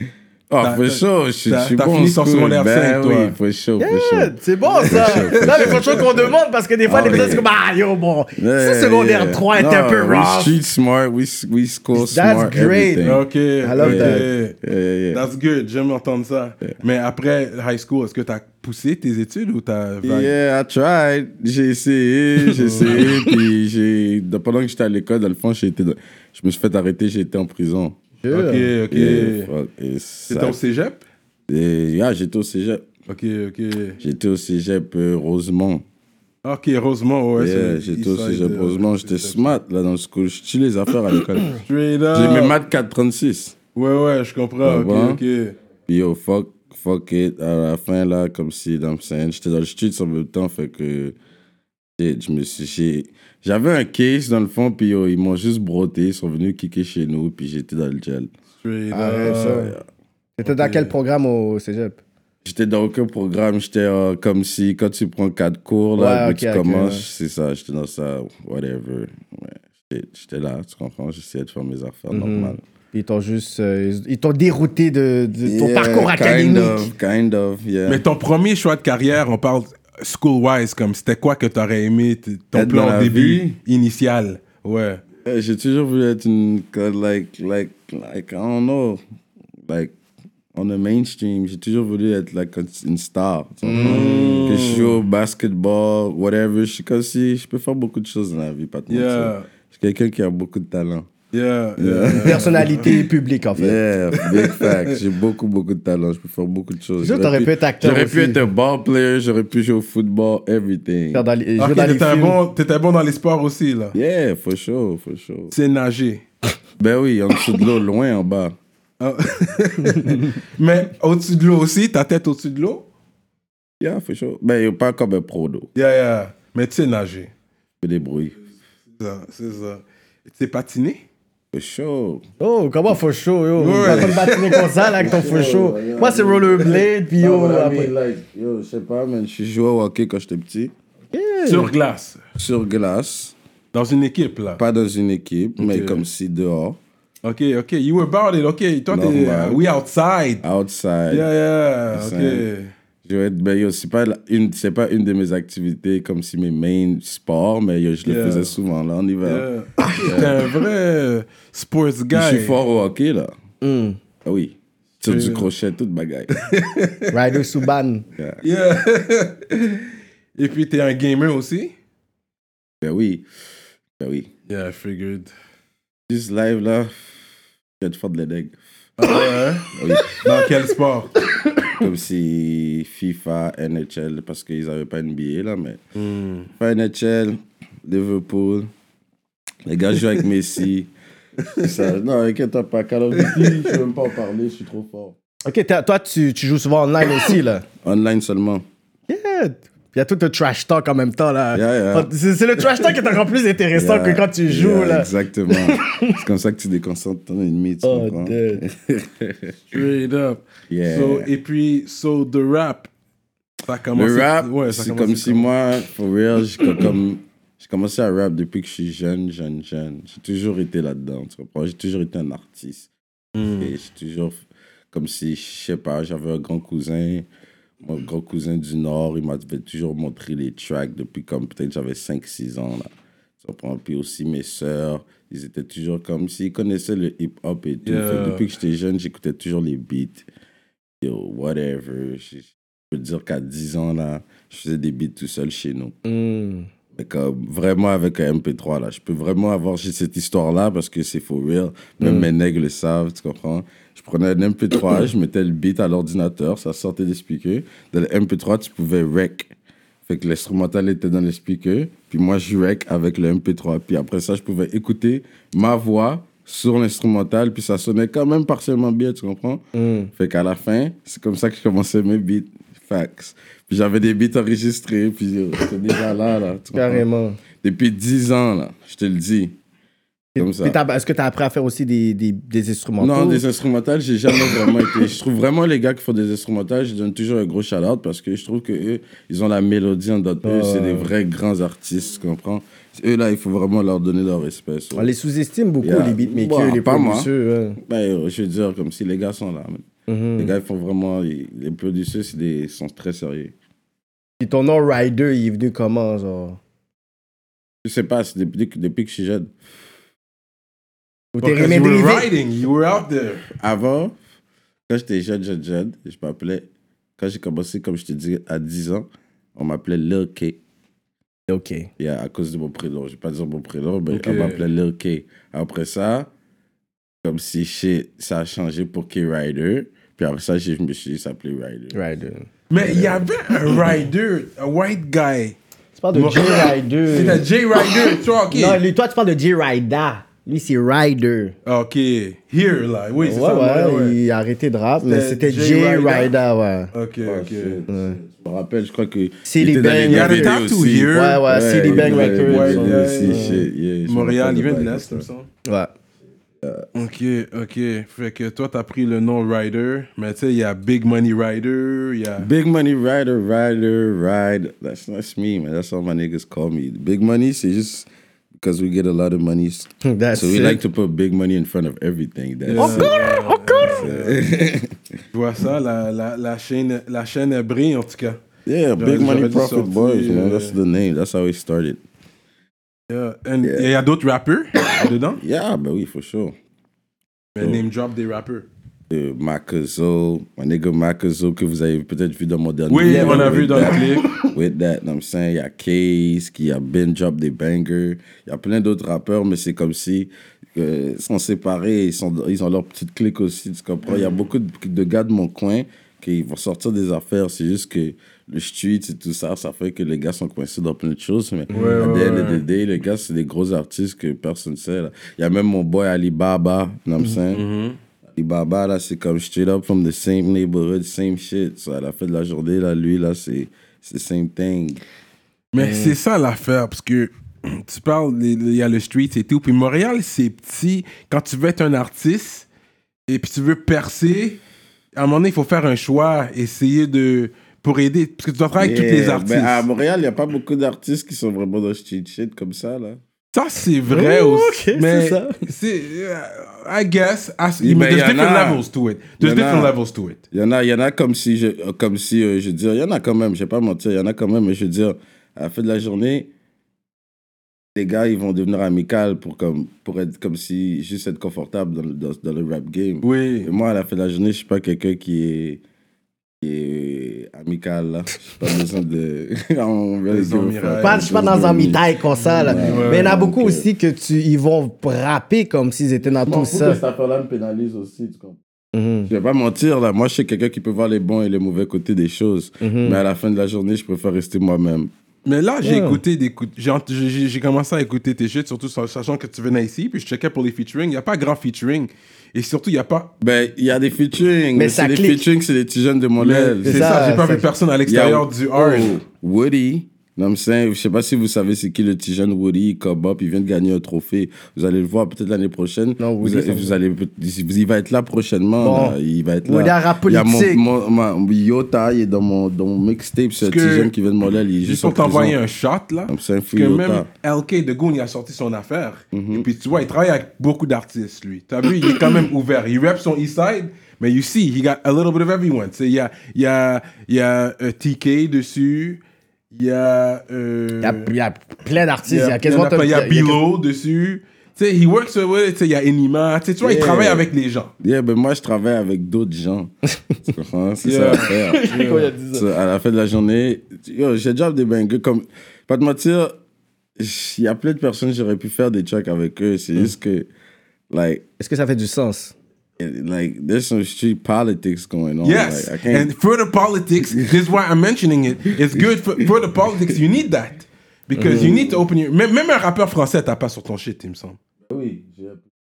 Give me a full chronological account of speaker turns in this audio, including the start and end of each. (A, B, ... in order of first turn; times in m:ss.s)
0:00.5-0:07.5 A
0:00.6-0:03.4 B
0:03.8-0:10.6 C
0:04.8-0:06.1 B
0:07.1-0:07.4 B
0:08.4-0:13.2 A
0:11.9-0:14.2 C
0:13.0-0:14.6 B
0:13.8-0:15.2 A
0:15.1-0:20.3 B
0:20.0-0:28.0 A
0:22.5-0:23.2 B
0:22.9-0:23.3 C
0:28.2-0:28.7 C
0:28.3-0:29.5 B
0:28.9-0:30.6 A
0:30.3-0:31.0 B
0:31.5-0:32.8 A
0:33.1-0:34.0 B
0:34.0-0:35.8 A
0:36.4-0:39.6 B
0:37.4-0:41.6 A
0:41.5-0:42.6 B
0:42.1-0:43.6 A
0:43.7-0:45.5 B
0:44.6-0:45.2 A
0:45.9-0:51.2 A
0:52.0-0:58.3 A
0:58.6-0:59.7 B
0:58.9-0:59.7 C
0:59.2-0:59.8 A
1:00.4-1:02.0 C
1:00.4-1:00.9 B
1:02.4-1:12.6 A
1:06.0-1:07.0 C
1:12.1-1:16.9 C
1:15.4-1:18.0 A
1:17.9-1:25.0 B
1:22.5-1:23.6 A
1:25.2-1:29.0 A
1:29.7-1:29.9 A
1:30.5-1:41.1 A
1:33.6-1:34.7 C
1:33.8-1:35.0 B
1:38.9-1:39.5 B
1:41.3-1:43.1 B
1:41.8-1:42.9 A
1:42.2-1:43.8 C
1:43.6-1:51.2 A
1:44.1-1:45.0 B
1:47.0-1:48.4 C
1:51.1-1:52.4 C
1:51.6-1:54.0 B
1:53.9-1:55.5 A
1:55.5-1:56.2 B
1:56.8-1:58.5 A
1:59.0-2:02.8 B
2:03.8-2:05.7 A
2:05.8-2:07.3 B
2:07.8-2:08.4 A
2:09.0-2:11.0 B
2:11.5-2:12.2 A
2:12.4-2:17.9 C
2:13.6-2:14.9 B
2:13.8-2:14.3 A
2:14.9-2:20.7 A
2:21.1-2:21.7 C
2:21.4-2:22.2 B
2:22.4-2:23.4 A
2:23.7-2:24.6 B
2:24.6-2:26.8 A
2:25.6-2:26.0 B
2:27.2-2:30.4 B
2:28.9-2:29.6 A
2:30.4-2:31.3 A
2:31.1-2:32.7 B
2:31.9-2:32.4 A
2:33.0-2:39.4 A
2:38.0-2:38.5 B
2:39.2-2:42.6 B
2:39.8-2:40.1 C
2:40.0-2:40.4 A
2:42.1-2:43.3 A
2:43.6-2:44.0 C
2:44.2-2:46.4 A
2:45.0-2:45.5 B
2:46.3-2:47.4 B
2:47.1-2:48.0 C
2:48.2-2:48.4 A
2:48.4-2:51.7 B
2:52.8-2:53.2 A
2:54.0-2:54.3 A
2:54.5-2:55.3 B
2:56.1-2:57.1 A
2:57.8-2:58.6 A
2:59.0-3:01.2 B
2:59.7-3:00.2 A
2:59.9-3:00.7 C
3:01.3-3:01.8 C
3:01.8-3:05.8 A
3:06.0-3:06.5 B
3:06.5-3:08.7 A
3:09.6-3:10.9 A
3:11.6-3:15.2 A
3:13.1-3:13.8 B
3:15.4-3:17.6 C
3:17.8-3:18.6 A
3:19.1-3:26.2 C
3:21.5-3:22.9 A
3:23.7-3:29.8 A
3:27.8-3:28.6 C
3:29.7-3:32.9 B
3:30.7-3:31.3 A
3:33.6-3:35.5 B
3:33.9-3:42.9 A
3:43.3-3:43.7 B
3:43.6-3:47.3 A
3:47.8-4:00.2 A
3:57.8-3:58.5 B
4:01.0-4:05.9 A
4:06.0-4:06.7 C
4:06.9-4:19.5 A
4:12.0-4:12.3 C
4:20.0-4:29.6 A
4:29.7-4:30.1 C
4:30.2-4:37.0 A
4:36.7-4:37.4 C
4:37.6-4:39.5 A
4:40.4-4:43.4 C
4:40.4-4:40.8 A
4:43.0-4:55.1 A
4:44.4-4:44.7 C
4:50.4-4:51.1 C
4:55.0-4:57.8 C
4:55.8-4:59.8 A
5:00.1-5:00.5 C
5:00.4-5:03.5 A
5:04.4-5:06.6 C
5:07.8-5:09.5 A
5:11.3-5:12.3 C
5:11.4-5:13.5 B
5:13.5-5:14.2 A
5:14.9-5:16.7 A
5:17.2-5:20.6 A
5:21.5-5:21.9 C
5:22.0-5:26.3 A
5:24.1-5:24.6 B
5:27.2-5:32.0 A
5:31.9-5:32.5 C
5:32.7-5:35.6 B
5:32.8-5:34.0 A
5:36.0-5:37.4 C
5:36.1-5:38.8 B
5:38.5-5:41.5 C
5:41.6-5:44.2 B
5:43.2-5:46.9 C
5:45.0-5:46.3 B
5:46.9-5:47.8 B
5:47.2-5:55.3 A
5:47.9-5:48.2 C
5:49.5-5:50.5 C
5:50.0-5:55.5 B
5:51.1-5:53.6 C
5:55.6-5:55.9 C
5:56.6-5:56.9 A
5:56.9-6:02.5 B
6:02.4-6:13.1 A
6:10.0-6:10.8 C
6:12.7-6:14.4 B
6:12.7-6:14.0 C
6:13.8-6:15.0 A
6:15.3-6:18.4 B
6:18.6-6:22.0 A
6:19.0-6:20.8 B
6:23.1-6:25.4 B
6:23.6-6:23.9 A
6:25.4-6:26.5 A
6:27.6-6:28.7 B
6:27.6-6:27.8 A
6:29.1-6:57.6 A
6:32.9-6:34.3 B
6:33.0-6:34.5 C
6:44.1-6:44.3 B
6:51.7-6:52.6 B
6:51.7-6:52.1 C
6:57.5-6:58.0 B
6:58.3-7:05.0 A
7:05.7-7:12.6 B
7:05.8-7:06.2 C
7:13.3-7:14.6 B
7:15.1-7:19.8 B
7:18.7-7:23.2 A
7:23.5-7:30.4 B
7:24.1-7:25.7 C
7:27.8-7:28.8 A
7:29.4-7:30.0 A
7:30.5-7:36.5 A
7:37.9-7:45.8 A
7:43.2-7:43.7 B
7:46.6-7:53.9 A
7:50.3-7:51.4 B
7:51.0-7:57.0 C
7:52.6-7:53.3 B
7:56.4-7:58.6 A
7:58.9-7:59.3 C
7:59.3-8:05.1 A
8:02.8-8:03.2 C
8:05.4-8:13.3 B
8:05.8-8:06.2 C
8:13.4-8:17.3 A
8:14.8-8:15.5 C
8:16.4-8:19.2 B
8:16.8-8:17.6 C
8:18.0-8:35.6 A
8:26.2-8:26.9 C
8:28.8-8:30.8 C
8:33.6-8:34.1 B
8:34.8-8:49.2 B
8:36.3-8:37.3 A
8:39.3-8:39.7 A
8:49.7-8:51.3 B
8:51.0-8:53.6 C
8:52.2-8:57.9 B
8:56.8-8:57.4 A
8:58.0-8:59.9 A
9:00.5-9:01.9 A
9:01.0-9:02.3 B
9:01.6-9:02.6 C
9:02.5-9:06.6 A
9:07.2-9:10.5 A
9:11.1-9:11.4 A
9:11.6-9:12.5 C
9:13.0-9:16.3 A
9:15.4-9:24.6 B
9:17.2-9:17.5 A
9:19.0-9:20.2 A
9:21.3-9:21.8 C
9:21.4-9:22.0 A
9:24.9-9:25.6 A